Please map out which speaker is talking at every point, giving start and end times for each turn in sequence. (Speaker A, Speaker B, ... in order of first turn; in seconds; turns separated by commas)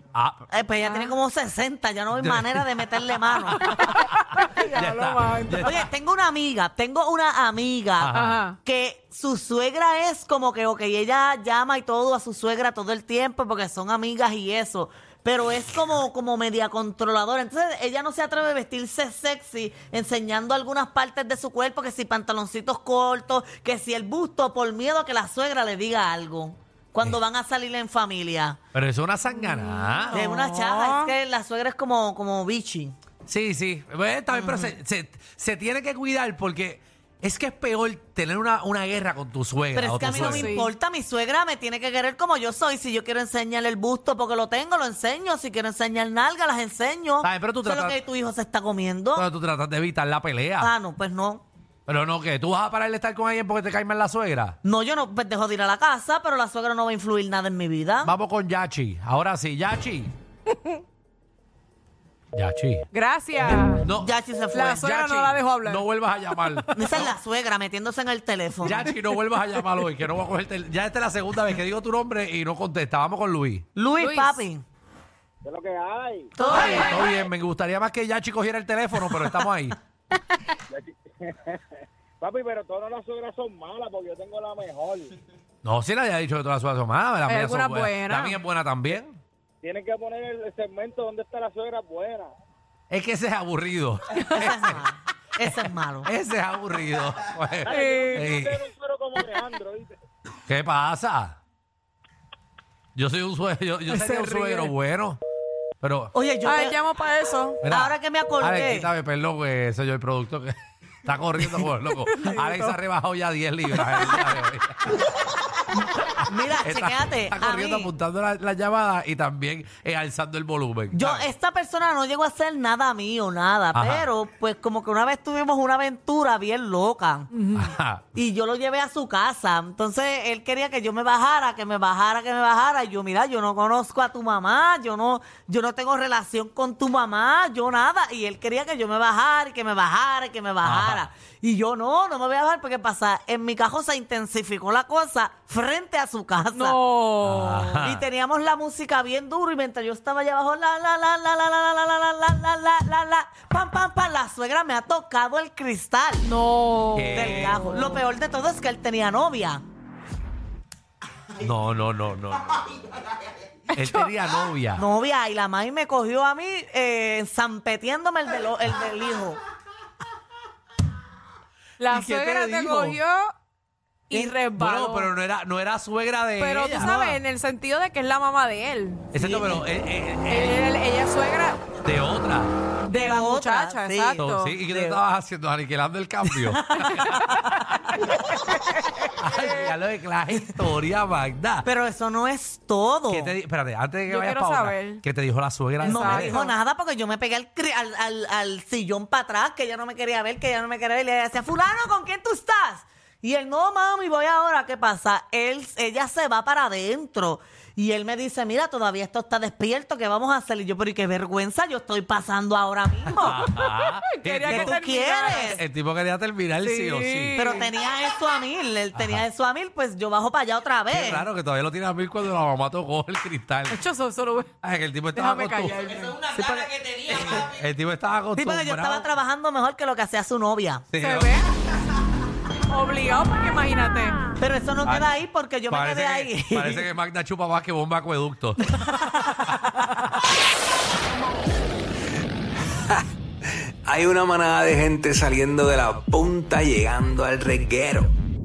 Speaker A: 0.1-0.5, Speaker B: 0.5-3.7, Speaker C: 0.8-1.1, Speaker A: 2.2-5.8, Speaker C: 3.5-5.8, Speaker B: 5.6-28.6, Speaker A: 8.0-8.4, Speaker C: 8.1-8.6, Speaker A: 28.7-30.2, Speaker C: 29.3-31.1, Speaker B: 30.1-33.0, Speaker A: 33.2-40.5, Speaker B: 34.3-34.7, Speaker B: 39.7-49.3, Speaker C: 40.2-40.7, Speaker A: 47.2-48.0, Speaker A: 49.1-50.7, Speaker B: 50.6-51.4, Speaker A: 51.9-54.6, Speaker B: 54.6-58.1, Speaker A: 58.0-60.1, Speaker C: 60.5-60.8, Speaker A: 62.3-62.9, Speaker C: 62.9-63.9, Speaker A: 63.8-64.1, Speaker B: 64.0-65.2, Speaker C: 64.5-67.0, Speaker A: 64.8-67.1, Speaker B: 66.8-68.9, Speaker A: 68.6-73.7, Speaker B: 73.8-74.6, Speaker C: 74.0-74.5, Speaker D: 75.4-76.3, Speaker B: 76.4-77.0, Speaker A: 76.4-79.8, Speaker D: 80.7-81.6, Speaker D: 82.2-85.1, Speaker A: 85.6-89.2, Speaker C: 87.2-88.4, Speaker D: 89.6-92.3, Speaker A: 92.9-94.8, Speaker B: 94.3-96.1, Speaker A: 96.0-98.6, Speaker C: 97.7-98.3, Speaker D: 97.7-99.9, Speaker A: 100.5-101.4, Speaker A: 103.0-105.2, Speaker C: 103.9-104.7, Speaker A: 105.8-106.1, Speaker B: 106.1-106.8, Speaker C: 106.4-107.6, Speaker A: 107.6-115.0, Speaker B: 107.7-108.9, Speaker C: 111.9-112.8, Speaker C: 113.7-114.2, Speaker B: 116.2-117.9, Speaker A: 116.6-121.3, Speaker B: 120.9-127.3, Speaker A: 123.7-124.1, Speaker C: 127.3-127.6, Speaker A: 127.5-128.1, Speaker B: 128.1-146.8, Speaker A: 140.6-141.1, Speaker C: 146.5-147.7, Speaker A: 147.2-148.1, Speaker B: 147.5-156.2, Speaker C: 156.2-158.0, Speaker A: 156.9-157.6, Speaker B: 157.1-159.6, Speaker A: 161.3-162.7, Speaker C: 163.7-164.4, Speaker A: 163.8-164.8, Speaker B: 164.8-169.4, Speaker C: 171.8-173.3, Speaker A: 171.9-173.0, Speaker C: 174.1-175.1, Speaker A: 174.5-177.2, Speaker C: 176.4-179.2, Speaker A: 179.1-180.7, Speaker B: 179.2-179.6, Speaker C: 180.3-181.6, Speaker A: 181.8-182.5, Speaker C: 182.8-184.6, Speaker B: 182.9-185.0, Speaker A: 184.2-187.8, Speaker C: 186.8-187.6, Speaker C: 188.3-189.7, Speaker A: 189.2-191.7, Speaker B: 191.6-193.3, Speaker A: 193.1-196.4, Speaker C: 194.1-195.0, Speaker C: 195.8-196.6, Speaker B: 195.8-213.5, Speaker A: 213.2-217.4, Speaker C: 213.4-215.5, Speaker B: 214.4-215.6, Speaker C: 216.6-217.7, Speaker B: 217.3-221.3, Speaker A: 218.9-219.2, Speaker A: 220.9-223.8, Speaker C: 223.7-224.5, Speaker A: 224.6-225.8, Speaker C: 225.1-226.3, Speaker B: 226.2-227.5, Speaker A: 227.0-229.1, Speaker B: 228.3-230.8, Speaker A: 230.9-231.4, Speaker C: 231.0-231.5, Speaker C: 232.7-234.2, Speaker B: 234.4-236.9, Speaker A: 234.8-235.1, Speaker A: 235.7-238.7, Speaker C: 238.9-239.3, Speaker E: 243.8-248.1